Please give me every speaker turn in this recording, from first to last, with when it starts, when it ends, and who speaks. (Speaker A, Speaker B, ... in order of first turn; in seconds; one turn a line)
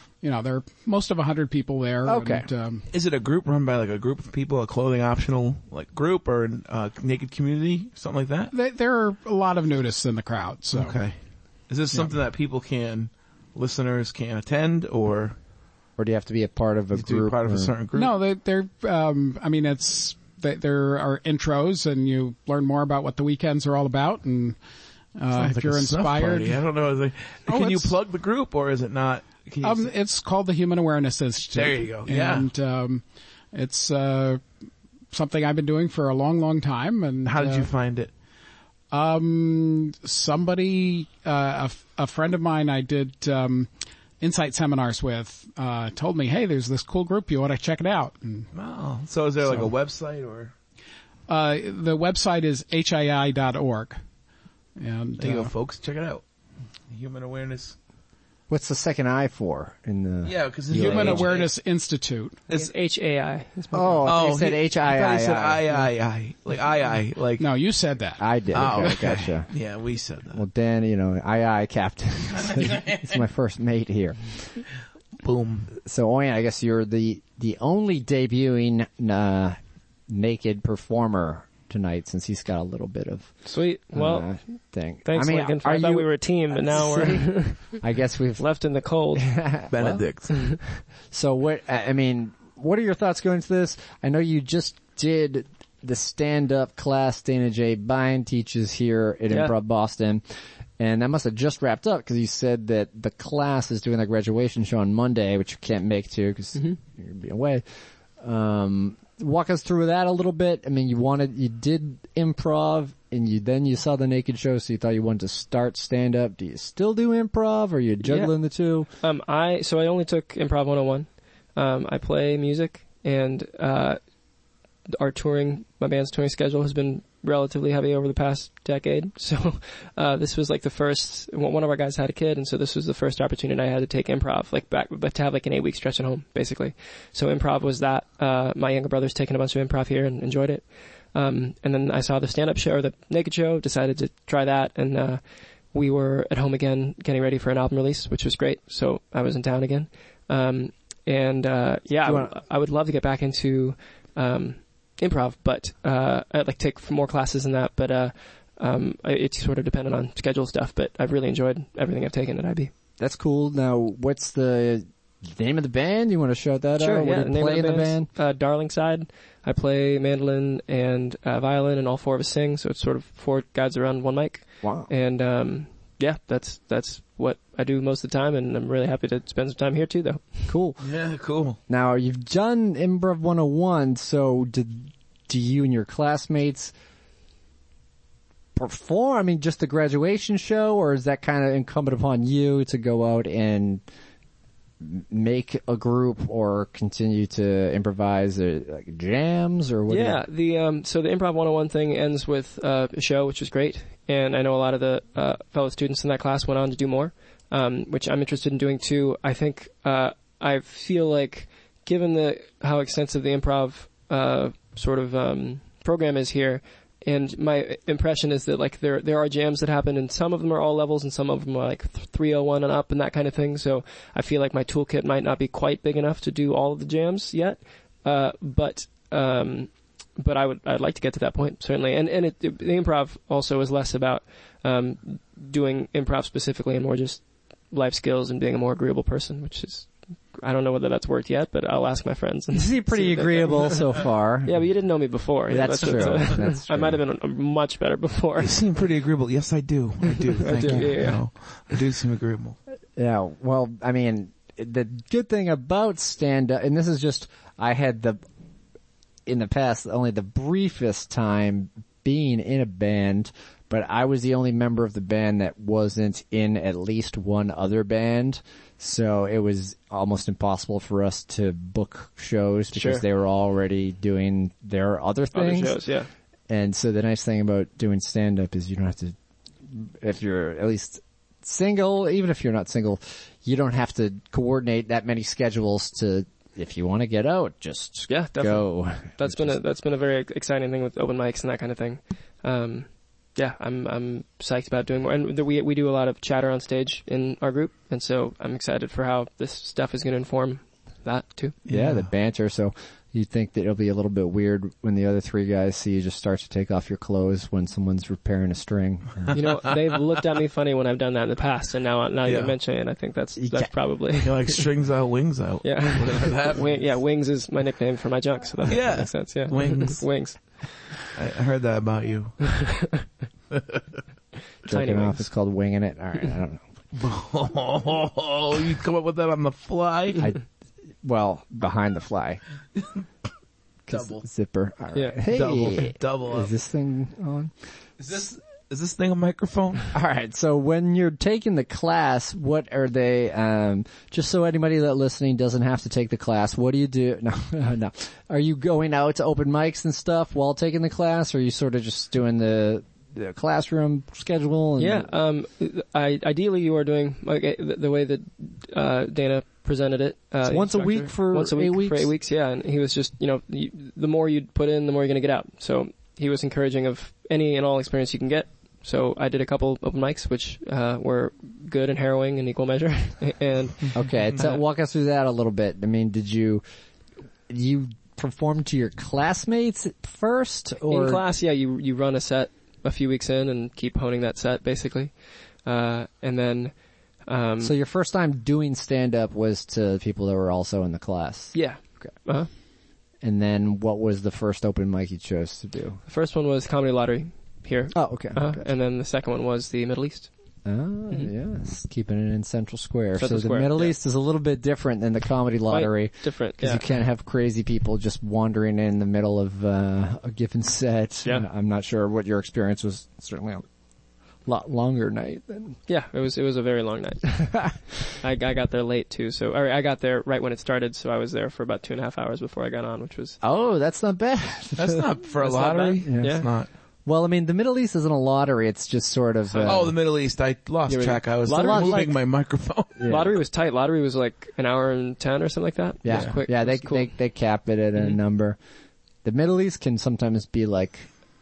Speaker A: 0.2-2.8
Speaker B: 2.0-2.5
Speaker C: 2.9-8.5
Speaker A: 8.5-11.0
Speaker C: 10.7-11.1
Speaker C: 11.7-15.3
Speaker B: 16.0-17.7
Speaker C: 16.9-18.1
Speaker A: 17.9-24.6
Speaker A: 25.1-26.6
Speaker C: 25.3-29.9
Speaker A: 27.5-27.9
Speaker A: 29.6-34.4
Speaker C: 31.5-32.5
Speaker A: 35.1-37.7
Speaker C: 37.2-38.1
Speaker A: 38.9-43.7
Speaker A: 44.2-48.5
Speaker C: 48.5-50.5
Speaker A: 51.3-54.0
Speaker A: 54.8-55.5
Speaker C: 55.2-56.2
Speaker C: 56.9-57.8
Speaker B: 58.5-61.3
Speaker C: 60.2-61.5
Speaker A: 60.7-62.4
Speaker D: 62.5-64.1
Speaker B: 63.7-65.6
Speaker C: 64.0-67.5
Speaker A: 67.4-68.2
Speaker B: 68.2-69.5
Speaker C: 68.5-70.4
Speaker B: 70.3-74.5
Speaker C: 72.4-73.0
Speaker C: 75.2-75.7
Speaker B: 75.8-83.3
Speaker D: 83.4-84.3
Speaker B: 83.9-88.4
Speaker D: 85.0-87.7
Speaker D: 88.4-89.3
Speaker B: 89.2-90.0
Speaker C: 89.7-90.3
Speaker B: 90.8-100.2
Speaker D: 99.3-99.5
Speaker B: 100.8-107.6
Speaker B: 108.2-118.9
Speaker D: 118.0-118.3
Speaker D: 119.0-124.0
Speaker D: 124.9-145.2
Speaker D: 145.7-162.7
Speaker B: 152.0-152.3
Speaker B: 163.0-168.1
Speaker D: 166.8-180.4
Speaker B: 174.6-174.9
Speaker B: 180.5-180.8
Speaker C: 180.8-181.6
Speaker B: 181.7-186.7
Speaker B: 188.5-193.8
Speaker B: 194.8-200.2
Speaker D: 199.9-248.5
Speaker B: 242.5-244.7
Speaker B: 245.5-247.0
Speaker C: 248.4-252.6
Speaker D: 250.4-251.2
Speaker B: 250.6-250.9
Speaker B: 252.9-258.2
Speaker B: 259.2-275.8
Speaker D: 272.7-273.0
Speaker D: 275.3-276.1
Speaker B: 276.5-279.1
Speaker B: 279.6-289.6
Speaker D: 288.1-301.6
Speaker C: 301.7-302.1
Speaker B: 301.7-309.3
Speaker D: 309.3-314.6
Speaker C: 312.2-312.5
Speaker B: 313.4-314.1
Speaker C: 314.2-316.7
Speaker D: 315.6-320.6
Speaker C: 318.7-320.4
Speaker C: 321.1-322.7
Speaker D: 324.6-325.2
Speaker B: 324.6-326.6
Speaker C: 326.9-330.2
Speaker B: 331.0-332.4
Speaker B: 333.9-337.5
Speaker C: 333.9-334.2
Speaker D: 334.9-335.2
Speaker C: 335.3-336.5
Speaker C: 338.0-339.9
Speaker B: 339.9-355.1
Speaker D: 354.8-374.6
Speaker B: 360.4-362.1
Speaker B: 373.9-376.6
Speaker B: 377.5-381.2
Speaker D: 380.9-386.7
Speaker D: 387.2-387.7
Speaker B: 387.6-392.1
Speaker D: 391.5-392.5
Speaker B: 393.2-396.0
Speaker D: 396.1-400.3
Speaker B: 397.9-398.7
Speaker B: 400.6-413.6
Speaker D: 403.2-403.9
Speaker D: 405.7-406.8
Speaker B: 414.4-415.8
Speaker D: 415.9-417.5
Speaker D: 418.2-423.4
Speaker B: 423.4-425.0
Speaker C: 424.8-426.7
Speaker D: 425.4-426.4
Speaker B: 426.0-426.4
Speaker B: 427.0-429.9
Speaker D: 429.5-429.8
Speaker C: 429.6-433.0
Speaker D: 430.9-432.1
Speaker B: 430.9-432.1
Speaker B: 433.0-433.4
Speaker D: 433.1-437.1
Speaker B: 436.0-438.6
Speaker B: 439.2-441.1